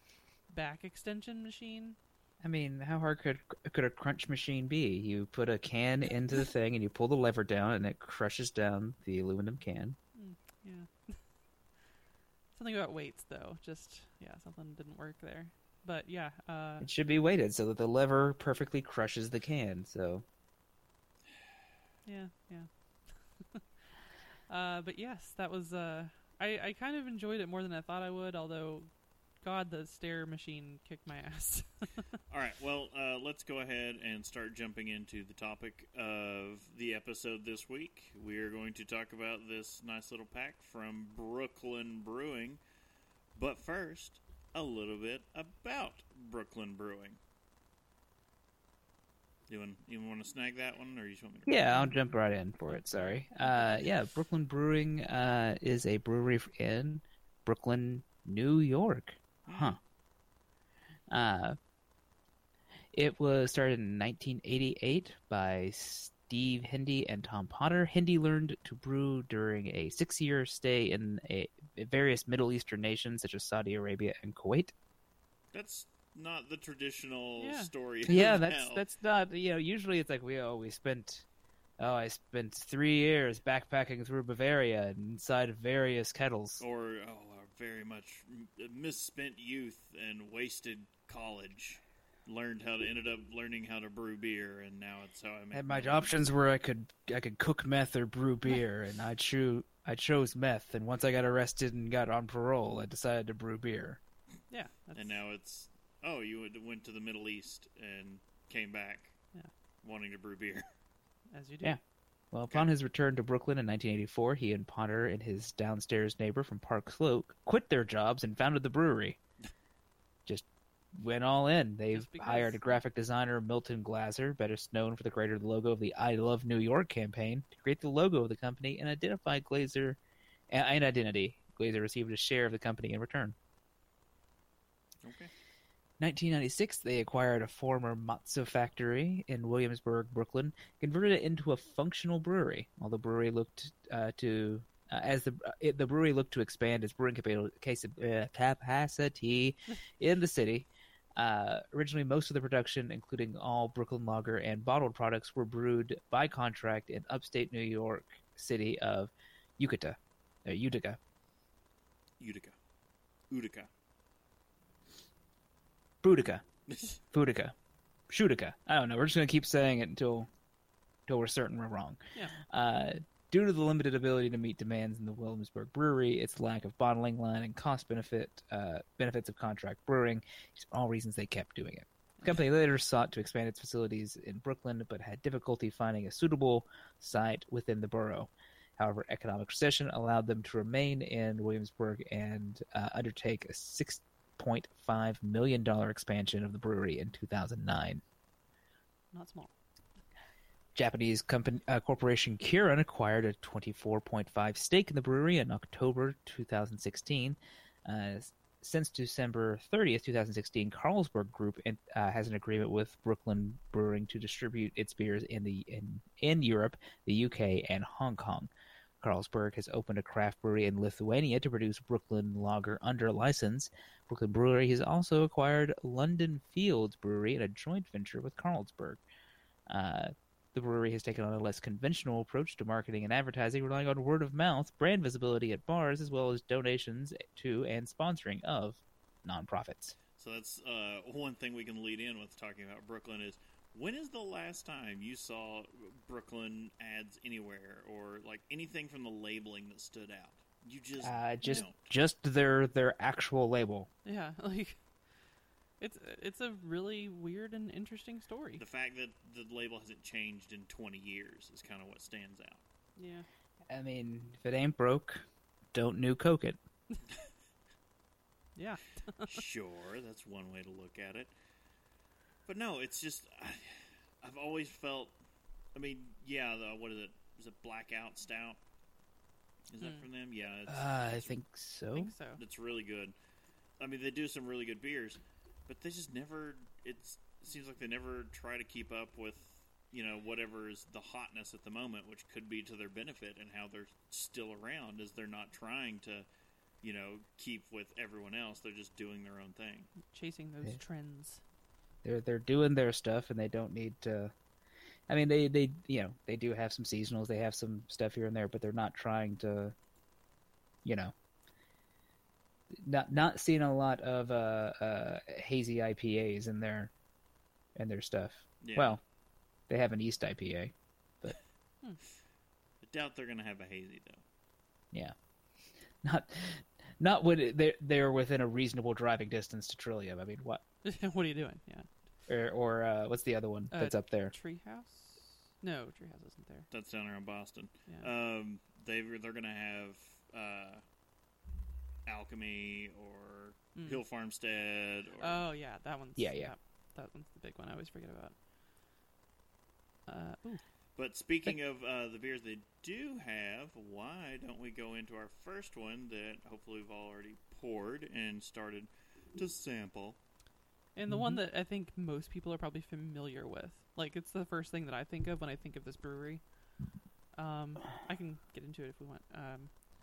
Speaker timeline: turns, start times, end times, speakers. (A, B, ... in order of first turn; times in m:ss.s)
0:00.5-0:02.0 A
0:02.4-0:10.0 B
0:10.2-0:11.2 A
0:12.5-0:16.9 A
0:16.8-0:20.2 B
0:22.1-0:22.7 A
0:24.5-0:28.9 A
0:29.4-0:32.1 A
0:32.3-0:42.6 C
0:43.4-0:47.2 C
0:49.5-0:51.9 C
0:51.5-0:59.8 B
0:52.7-0:53.2 A
0:53.4-0:53.9 C
0:59.5-0:59.8 C
1:01.1-1:01.6 B
1:02.9-1:14.7 B
1:15.5-1:18.8 C
1:17.4-1:17.7 A
1:18.1-1:21.2 B
1:21.8-1:26.6 B
1:26.6-1:36.2 C
1:35.5-1:44.0 B
1:44.5-1:45.2 A
1:45.0-1:49.2 C
1:49.8-1:50.6 C
1:51.3-1:51.8 A
1:52.3-1:59.2 B
2:00.3-2:10.0 B
2:01.9-2:02.8 A
2:10.5-2:13.3 B
2:15.0-2:15.3 C
2:16.0-2:41.0 B
2:42.2-2:42.5 C
2:43.3-2:43.7 C
2:46.0-2:46.4 B
2:46.7-2:47.0 C
2:47.1-2:47.5 B
2:48.1-2:50.3 B
2:51.1-3:18.0 B
3:19.1-3:19.5 A
3:20.7-3:38.5 B
3:39.0-3:49.0 B
3:49.7-4:00.0 B
4:00.2-4:11.9 C
4:11.0-4:13.9 B
4:14.0-4:14.8 A
4:15.8-4:18.6 A
4:18.6-4:22.6 C
4:23.0-4:23.3 A
4:23.7-4:26.6 B
4:28.6-4:29.4 A
4:29.2-4:31.3 C
4:32.5-4:35.1 C
4:35.8-4:38.6 C
4:39.7-4:41.3 C
4:40.7-4:42.1 B
4:42.0-4:42.4 A
4:42.4-4:43.1 C
4:43.8-4:56.2 C
4:56.8-4:59.9 C
5:00.0-5:01.4 A
5:02.0-5:04.3 B
5:05.1-5:09.7 B
5:10.8-5:11.1 B
5:12.7-5:16.9 B
5:17.8-5:19.0 B
5:18.6-5:19.0 C
5:19.7-5:21.4 B
5:22.8-5:24.2 C
5:26.0-5:30.6 B
5:30.8-5:31.9 A
5:32.3-5:34.3 B
5:33.7-5:36.7 A
5:36.7-5:40.8 C
5:42.0-5:45.4 C
5:43.8-5:44.0 A
5:45.2-5:48.4 A
5:46.2-5:46.5 B
5:50.1-5:50.6 A
5:51.0-6:00.2 C
6:00.9-6:06.4 A
6:01.1-6:01.4 B
6:07.4-6:09.7 A